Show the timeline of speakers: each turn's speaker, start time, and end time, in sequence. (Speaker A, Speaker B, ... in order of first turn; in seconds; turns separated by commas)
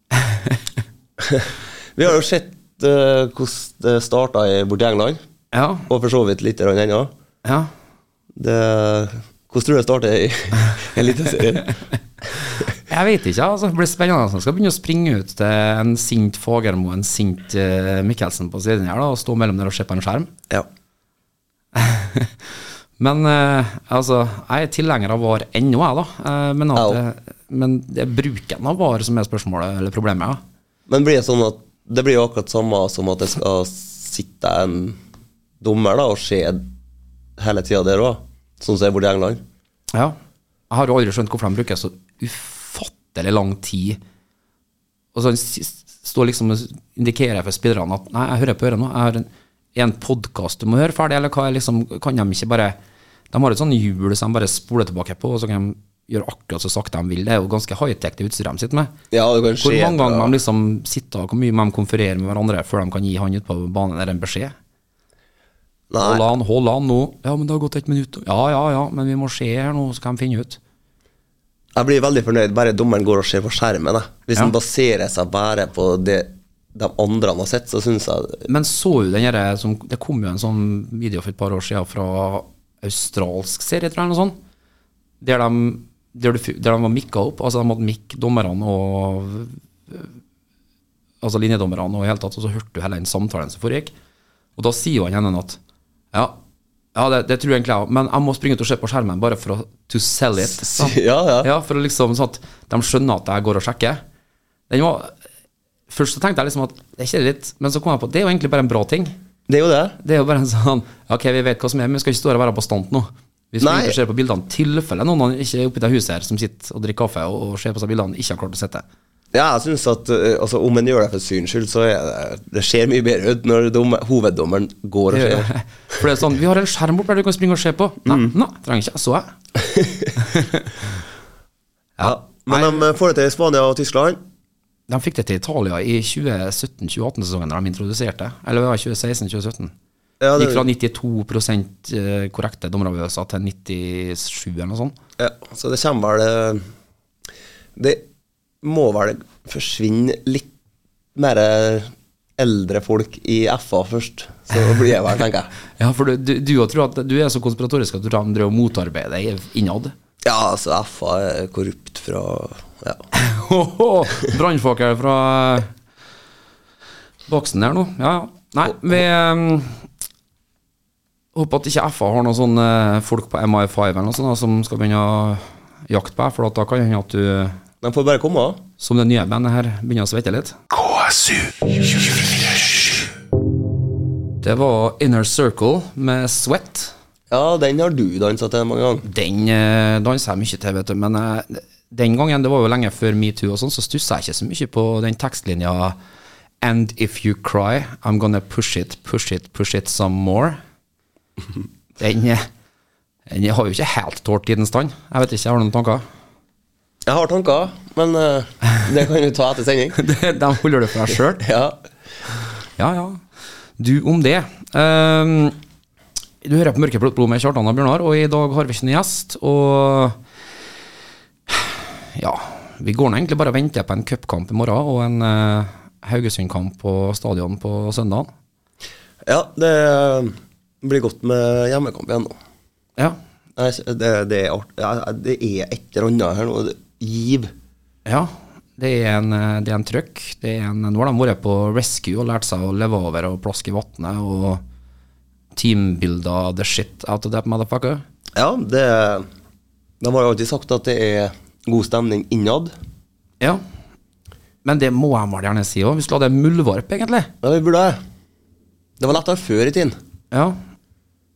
Speaker A: 1.2-5.2, Speaker B: 5.5-5.9, Speaker A: 5.9-7.1, Speaker B: 7.4-7.7, Speaker A: 8.3-11.7, Speaker B: 12.9-20.3, Speaker B: 21.8-22.3, Speaker B: 23.0-30.4, Speaker A: 26.8-27.0, Speaker A: 30.9-35.0, Speaker A: 35.6-36.7, Speaker A: 37.4-39.4, Speaker B: 40.7-44.0, Speaker B: 45.1-52.8, Speaker B: 53.3-58.9, Speaker A: 59.1-60.4, Speaker B: 59.6-64.5, Speaker A: 65.9-66.2, Speaker B: 66.0-70.6, Speaker A: 71.8-78.5, Speaker B: 78.5-84.4, Speaker B: 85.2-90.1, Speaker B: 91.2-93.9, Speaker B: 94.6-95.6, Speaker B: 97.0-104.0, Speaker A: 100.5-101.5, Speaker B: 104.7-105.1, Speaker B: 105.9-109.1, Speaker A: 109.5-110.0, Speaker B: 110.0-118.8, Speaker A: 113.6-114.0, Speaker A: 119.3-125.5, Speaker B: 125.1-129.3, Speaker A: 128.1-128.3, Speaker A: 129.7-130.1, Speaker B: 130.3-130.7, Speaker B: 132.0-132.8, Speaker A: 132.0-134.2, Speaker B: 134.9-139.7, Speaker A: 140.2-140.7, Speaker B: 140.4-144.9, Speaker A: 145.2-146.6, Speaker A: 147.8-148.0, Speaker A: 148.6-150.5, Speaker A: 151.2-155.5, Speaker B: 155.8-159.9, Speaker A: 160.2-163.0, Speaker B: 163.1-165.7, Speaker B: 167.3-169.8, Speaker B: 171.3-177.6, Speaker A: 177.8-178.6, Speaker B: 178.8-180.6, Speaker B: 184.4-186.9, Speaker A: 187.3-189.1, Speaker B: 189.0-196.0, Speaker B: 196.6-200.6, Speaker B: 202.0-202.4, Speaker B: 203.3-206.0, Speaker A: 207.1-210.0, Speaker B: 210.0-211.4, Speaker A: 211.4-211.8, Speaker B: 212.8-213.2, Speaker B: 213.8-215.6, Speaker B: 216.4-220.2, Speaker B: 221.5-228.3, Speaker A: 229.2-232.4, Speaker A: 233.6-237.5, Speaker B: 238.1-244.6, Speaker B: 245.6-248.0, Speaker A: 248.3-249.3, Speaker A: 250.0-252.7, Speaker B: 254.6-257.3, Speaker A: 257.4-258.0, Speaker A: 259.0-260.0, Speaker B: 260.3-260.6